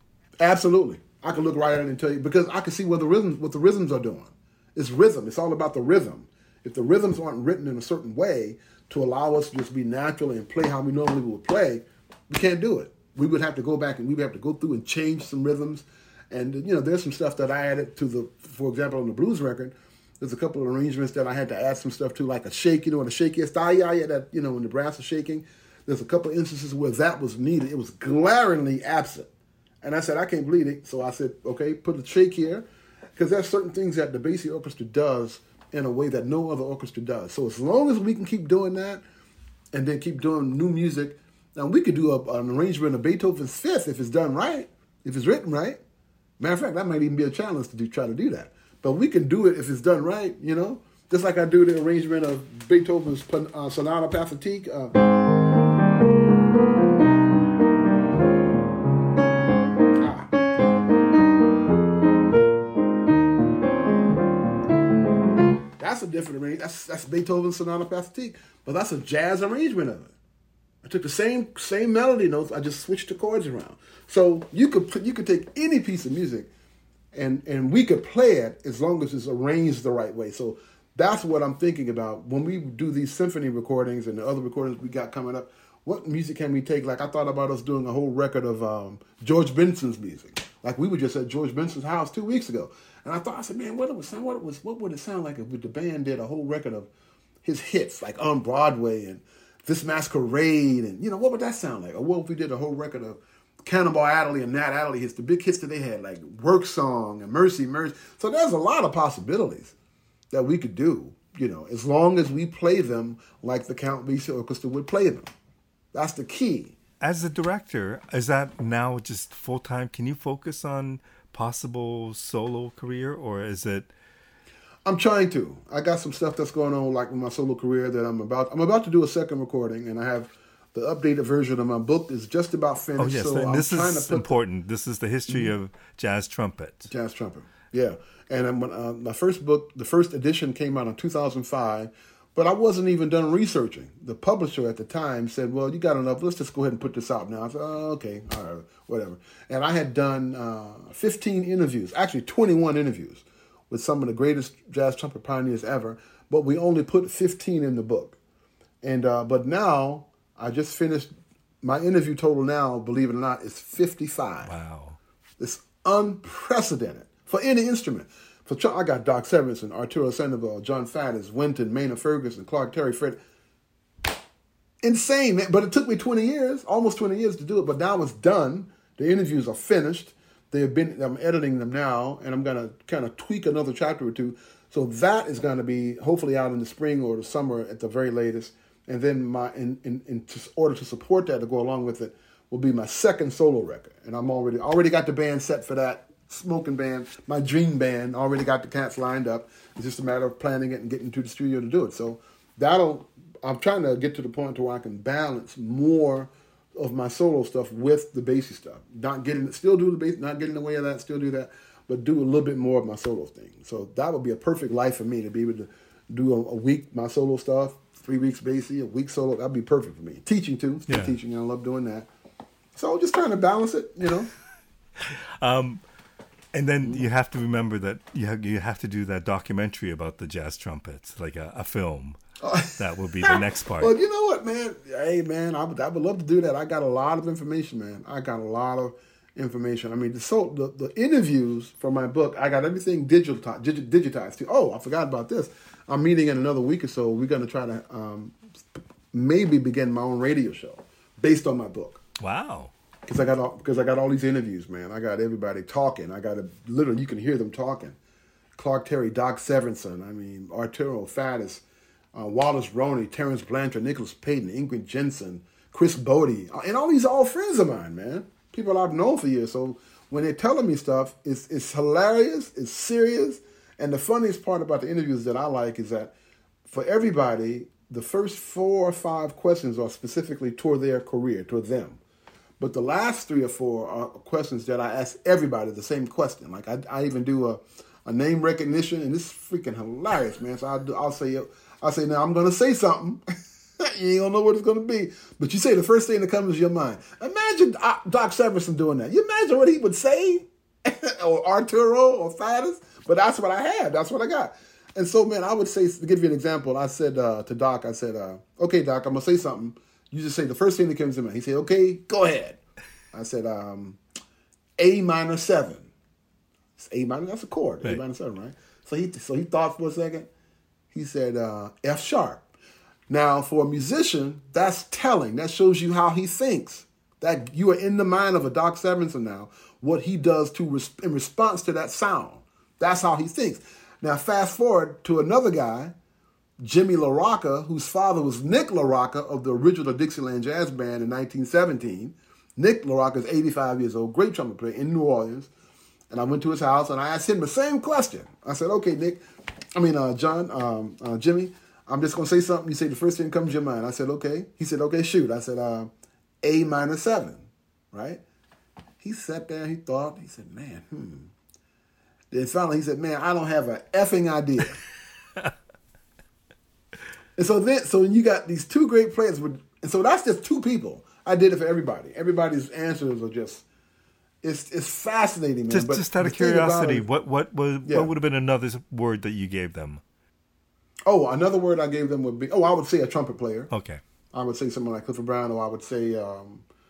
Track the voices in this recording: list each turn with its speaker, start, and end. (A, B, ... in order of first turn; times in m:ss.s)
0:00.4-0:29.3 A
0:29.8-0:32.6 A
0:33.2-0:39.0 A
0:39.7-0:45.8 A
0:46.4-0:54.9 A
1:00.0-1:00.3 A
1:05.8-1:10.1 A
1:10.8-1:16.5 A
1:17.1-1:36.9 A
1:37.4-1:49.7 A
1:50.3-1:55.3 A
1:55.9-1:56.8 A
1:57.0-2:03.9 B
2:04.8-2:14.3 A
2:13.0-2:16.9 B
2:15.3-2:15.5 A
2:16.9-2:38.2 A
2:38.8-2:44.5 A
2:44.4-2:45.0 B
2:45.4-2:53.2 A
2:54.8-3:42.1 A
3:40.9-3:41.1 B
3:42.7-3:44.3 A
3:45.0-3:45.8 B
3:46.5-3:52.2 B
3:52.4-4:08.4 A
3:52.8-3:53.9 B
4:09.1-4:12.0 A
4:12.2-4:12.7 B
4:13.1-4:18.0 A
4:18.6-4:21.6 A
4:22.1-4:36.1 A
4:36.7-4:42.0 A
4:42.6-4:53.2 A
4:53.8-5:12.6 A
5:13.1-5:14.0 A
5:14.8-5:15.9 A
5:16.8-5:20.3 A
5:20.9-5:22.4 A
5:23.1-5:35.9 A
5:36.6-5:45.5 A
5:46.1-5:49.2 A
5:49.8-5:55.9 A
5:56.4-5:58.2 A
5:59.0-6:01.3 A
6:02.3-6:04.8 A
6:07.4-6:13.6 A
6:14.4-6:17.0 A
6:15.7-6:20.0 B
6:17.8-6:18.1 A
6:21.0-6:23.7 A
6:23.7-6:24.0 B
6:24.3-6:26.6 A